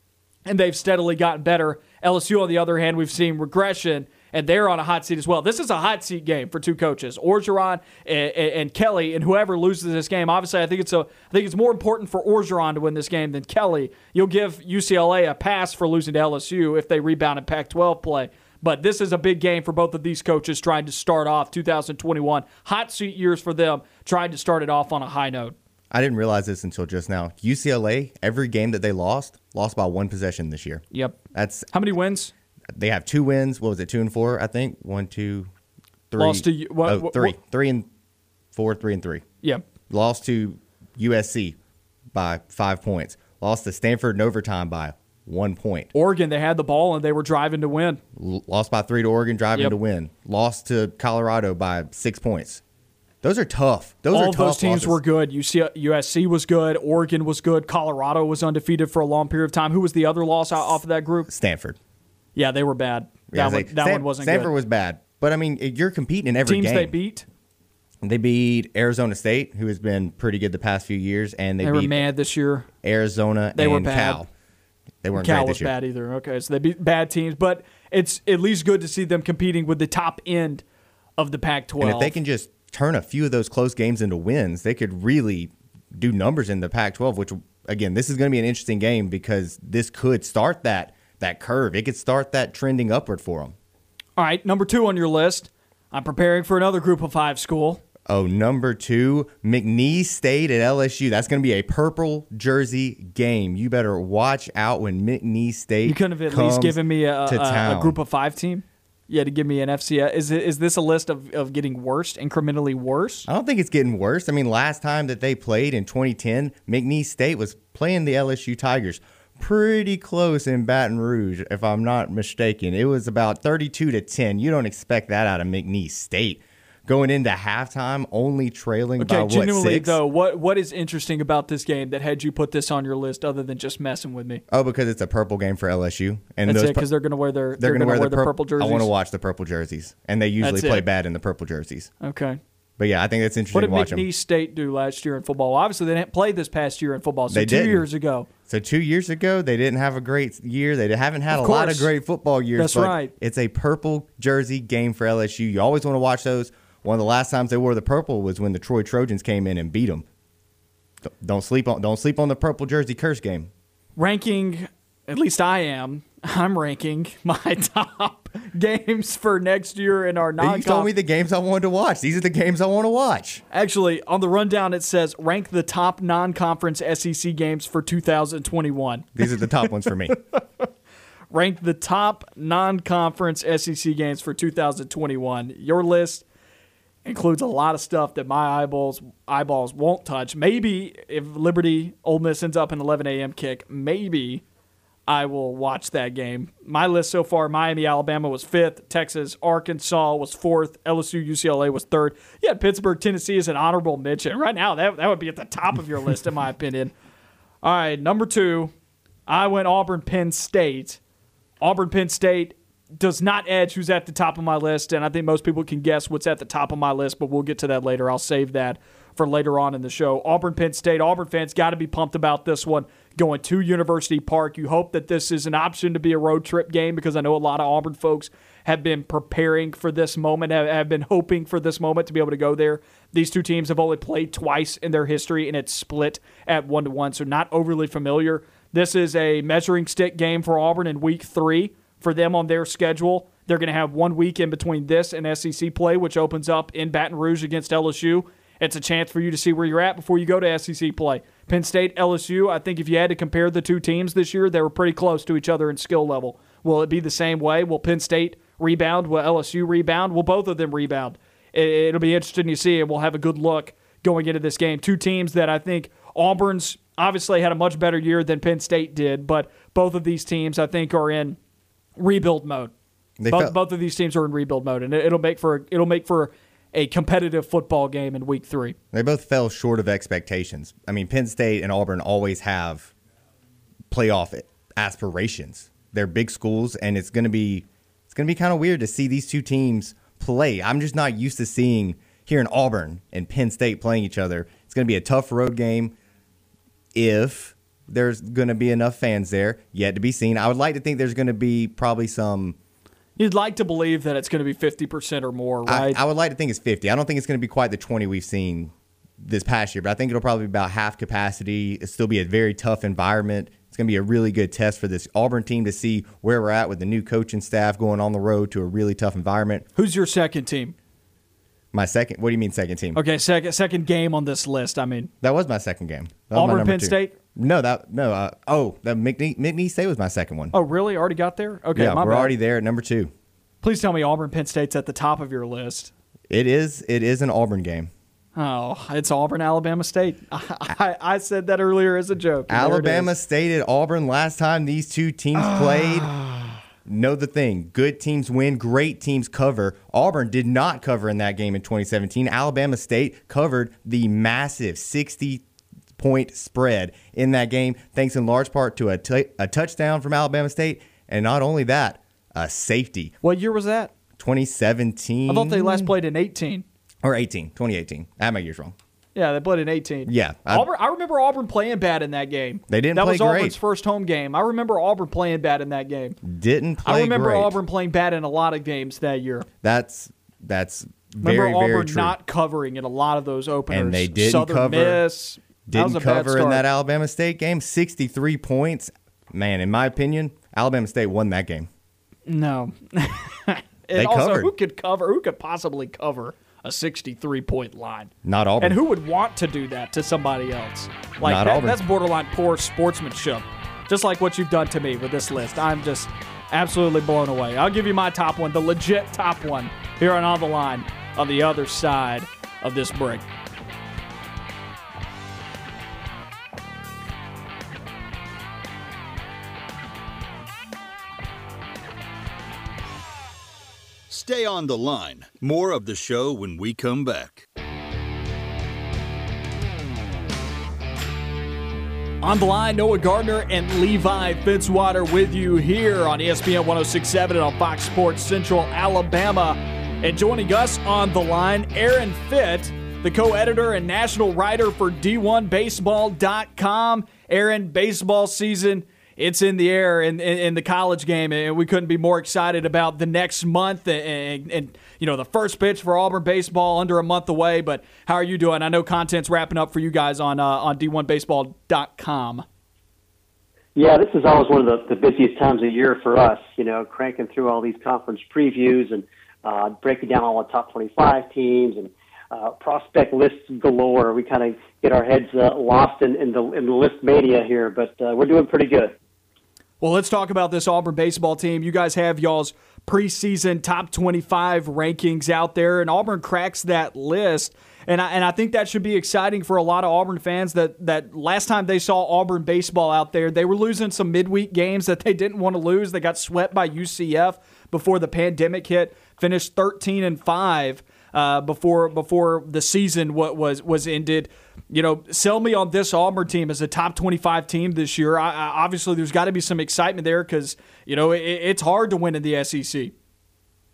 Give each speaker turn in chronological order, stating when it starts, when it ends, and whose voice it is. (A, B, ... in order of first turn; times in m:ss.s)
0:00.4-0:25.5 A
0:25.9-0:31.7 B
0:30.9-0:31.2 A
0:31.7-0:32.3 A
0:32.7-0:35.5 B
0:36.1-0:37.9 B
0:36.2-0:37.3 A
0:38.5-0:39.2 B
0:39.9-0:41.6 B
0:42.1-0:45.9 B
0:45.9-0:48.0 A
0:48.2-0:52.6 B
0:53.2-0:55.0 B
0:54.1-1:01.3 A
1:01.3-1:01.8 B
1:02.4-1:04.5 A
1:03.3-1:06.9 B
1:06.4-1:07.2 A
1:08.0-1:12.0 B
1:11.6-1:12.7 A
1:12.8-1:14.3 B
1:13.5-1:14.2 A
1:15.0-1:15.7 B
1:15.1-1:20.6 A
1:21.2-1:22.2 A
1:21.8-1:33.6 B
1:34.2-1:37.8 A
1:38.1-1:48.0 B
1:45.8-1:53.3 A
1:53.3-2:10.0 B
2:09.0-2:14.4 A
2:14.5-2:16.8 B
2:16.4-2:18.9 A
2:17.6-2:21.9 B
2:20.4-2:20.8 A
2:22.0-2:22.4 A
2:22.8-2:24.0 B
2:23.5-2:28.3 A
2:27.3-2:27.8 B
2:28.5-2:40.0 B
2:31.3-2:31.9 A
2:32.6-2:33.1 A
2:41.0-2:43.5 B
2:44.0-2:50.9 A
2:50.4-2:53.4 B
2:53.5-2:59.4 A
2:59.2-3:00.2 B
3:00.4-3:00.6 A
3:01.3-3:06.2 A
3:07.0-3:14.4 A
3:15.1-3:26.9 A
3:27.6-3:28.7 A
3:29.3-3:31.0 A
3:31.6-4:31.4 A
4:32.0-4:32.7 A
4:33.2-4:33.6 B
4:33.3-4:38.8 A
4:38.9-4:42.9 B
4:43.9-4:55.9 B
4:56.9-5:02.6 B
5:03.2-5:06.0 A
5:05.6-5:19.6 B
5:19.8-5:20.7 A
5:21.7-5:23.0 B
5:22.9-5:25.1 A
5:25.2-5:30.5 B
5:26.3-5:27.1 A
5:30.5-5:32.3 A
5:31.7-5:33.1 B
5:33.6-5:35.9 A
5:36.3-5:37.9 B
5:38.4-5:43.1 A
5:42.5-5:46.2 B
5:45.4-5:46.5 A
5:46.8-5:55.4 B
5:56.0-6:03.1 B
6:03.2-6:03.9 A
6:04.2-6:05.9 B
6:05.3-6:06.6 A
6:07.0-6:08.7 B
6:09.1-6:16.2 A
6:10.1-6:10.6 B
6:12.7-6:13.6 B
6:16.2-6:17.6 B
6:16.8-6:19.5 A
6:19.6-6:22.2 B
6:21.2-6:26.6 A
6:23.7-6:25.0 B
6:25.7-6:31.7 B
6:32.3-6:53.3 A
6:34.0-6:34.5 B
6:38.2-6:38.8 B
6:41.2-6:41.8 B
7:04.1-7:07.4 C
7:12.2-7:42.4 A
7:43.7-7:58.9 D
7:59.8-8:32.9 A